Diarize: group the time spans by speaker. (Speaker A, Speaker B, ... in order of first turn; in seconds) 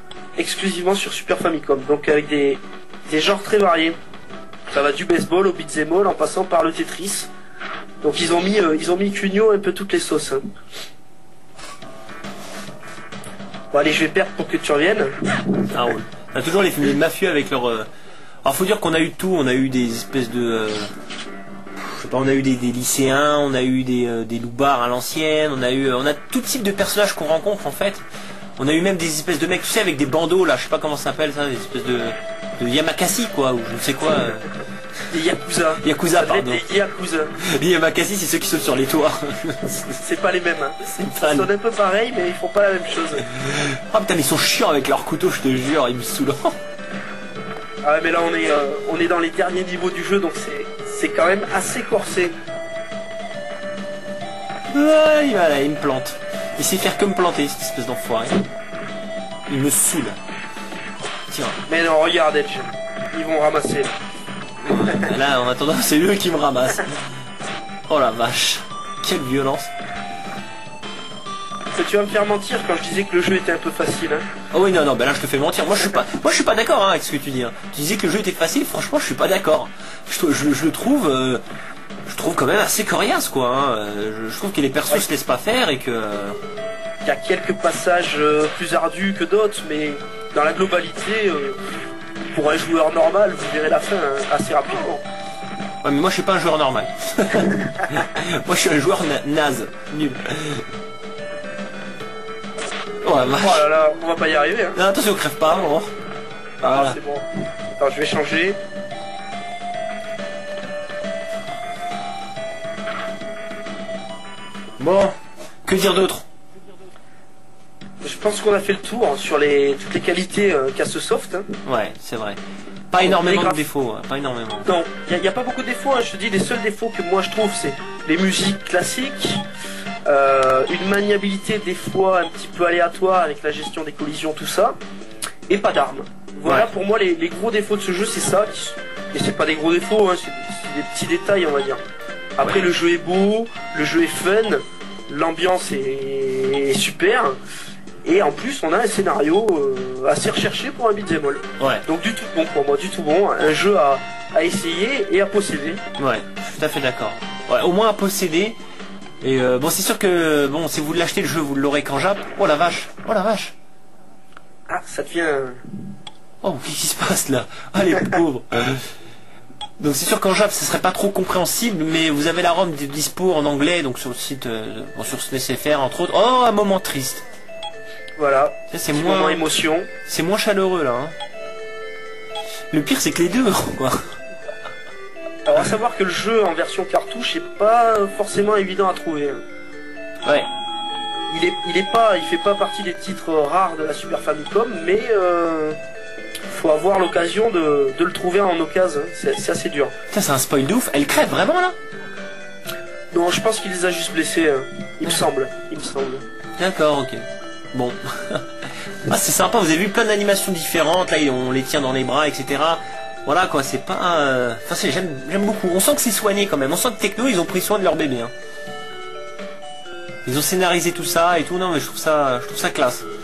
Speaker A: 0.4-4.0, 4.7-7.3, 8.0-10.4, 13.7-15.6, 35.1-37.3, 40.0-43.3, 47.8-52.3, 61.7-64.0, 71.7-74.3, 87.0-91.6, 92.3-95.0, 97.5-98.1, 103.2-104.8, 106.6-107.3, 107.8-108.6, 118.0-121.5, 123.0-123.6, 124.7-129.4, 130.1-134.8, 135.5-141.8, 142.4-147.4, 148.1-155.8, 164.7-165.6, 178.2-179.9, 185.5-189.4, 191.3-195.8, 196.5-199.9, 203.1-206.2
Speaker B: 15.7-17.9, 18.4-20.9, 21.8-28.0, 28.6-34.5, 35.8-36.7, 37.4-40.0, 40.8-41.5, 43.3-46.6, 54.7-58.5, 59.5-60.2, 61.3-61.6, 64.6-67.1, 67.9-69.7, 74.5-81.4, 82.1-86.4, 95.8-100.7, 103.0-103.7, 104.8-105.9, 106.6-107.0, 114.8-115.2, 115.7-116.3, 121.7-122.4, 122.9-124.7, 142.4-142.7, 156.0-158.6, 159.2-163.5, 166.4-168.9, 169.8-177.2, 178.7-179.4, 180.1-181.2, 182.7-184.2, 200.1-201.8, 206.6-218.3, 220.2-223.1